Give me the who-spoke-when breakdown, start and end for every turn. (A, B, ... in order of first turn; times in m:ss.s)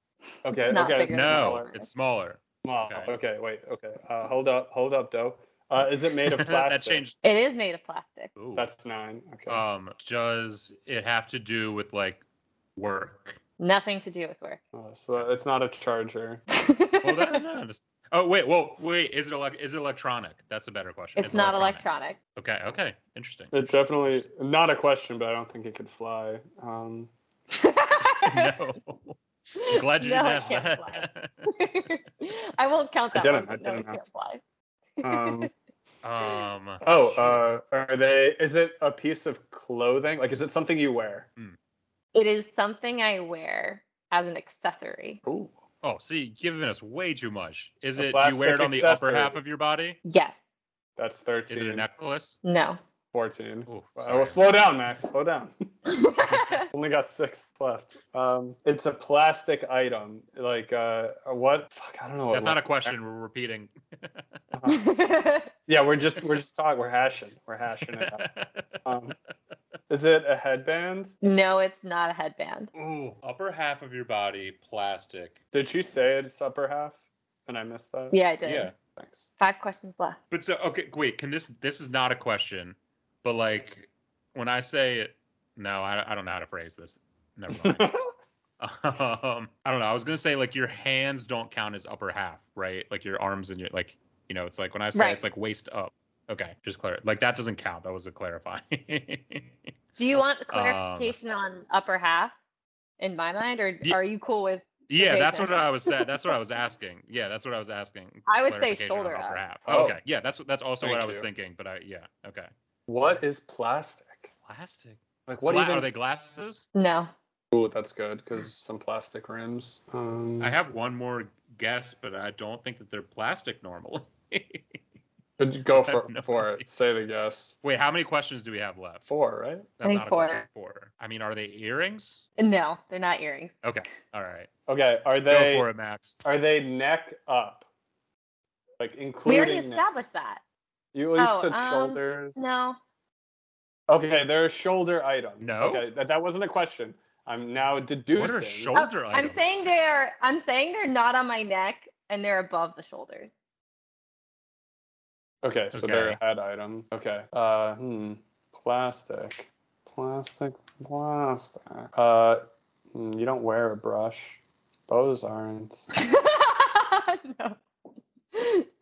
0:00.4-0:01.6 A
0:00.5-0:01.9 B
0:01.1-0:03.1 C
0:02.6-0:07.0 A
0:06.3-0:07.2 C
0:07.2-0:08.3 B
0:08.4-0:08.7 C
0:08.5-0:09.6 A
0:09.5-0:12.2 C
0:12.8-0:13.4 C
0:13.6-0:14.6 B
0:14.7-0:16.4 A
0:16.5-0:17.4 B
0:17.0-0:21.8 C
0:21.2-0:22.2 B
0:22.4-0:24.2 C
0:23.5-0:27.1 A
0:27.5-0:28.6 B
0:28.2-0:31.5 C
0:29.6-0:34.4 B
0:33.1-0:34.0 A
0:35.0-0:35.5 B
0:35.0-0:35.5 A
0:36.0-0:37.4 C
0:36.8-0:41.3 A
0:42.1-0:45.2 B
0:45.2-0:45.6 A
0:45.8-0:50.0 C
0:48.0-0:49.4 A
0:50.0-0:50.4 B
0:51.0-0:51.8 A
0:51.5-0:52.4 C
0:52.4-0:52.8 B
0:53.1-0:55.7 A
0:53.7-0:54.5 C
0:55.9-0:56.6 B
0:56.5-1:02.9 A
1:02.3-1:04.2 C
1:04.5-1:04.8 A
1:04.6-1:05.5 B
1:05.7-1:08.2 A
1:07.9-1:08.8 C
1:08.8-1:09.2 A
1:09.9-1:11.1 A
1:11.2-1:12.7 B
1:12.7-1:15.4 C
1:15.5-1:18.2 A
1:18.1-1:18.7 B
1:18.4-1:18.7 C
1:18.9-1:19.3 A
1:19.4-1:20.2 B
1:20.3-1:27.9 C
1:27.6-1:28.0 A
1:28.6-1:39.5 C
1:34.9-1:35.2 B
1:40.0-1:42.3 B
1:40.5-1:41.1 C
1:43.0-1:46.1 B
1:44.9-1:52.5 C
1:48.3-1:49.4 B
1:49.7-1:50.0 A
1:50.8-1:51.3 A
1:52.9-1:54.3 A
1:54.4-1:56.6 C
1:55.3-1:55.9 A
1:56.7-1:57.1 B
1:57.5-2:00.6 A
2:00.4-2:04.8 C
2:05.4-2:07.6 A
2:05.7-2:06.6 C
2:07.6-2:09.2 C
2:09.1-2:09.7 A
2:09.8-2:12.2 C
2:09.8-2:10.4 B
2:12.4-2:13.5 B
2:13.6-2:14.5 C
2:14.7-2:15.7 A
2:15.2-2:16.2 C
2:16.2-2:17.6 A
2:18.8-2:19.8 A
2:19.2-2:20.4 B
2:20.9-2:22.5 A
2:21.2-2:22.8 B
2:23.9-2:28.7 A
2:25.4-2:25.8 C
2:28.1-2:29.7 C
2:28.7-2:33.3 B
2:35.4-2:45.8 A
2:35.7-2:36.2 C
2:46.0-2:47.6 B
2:48.3-2:48.7 B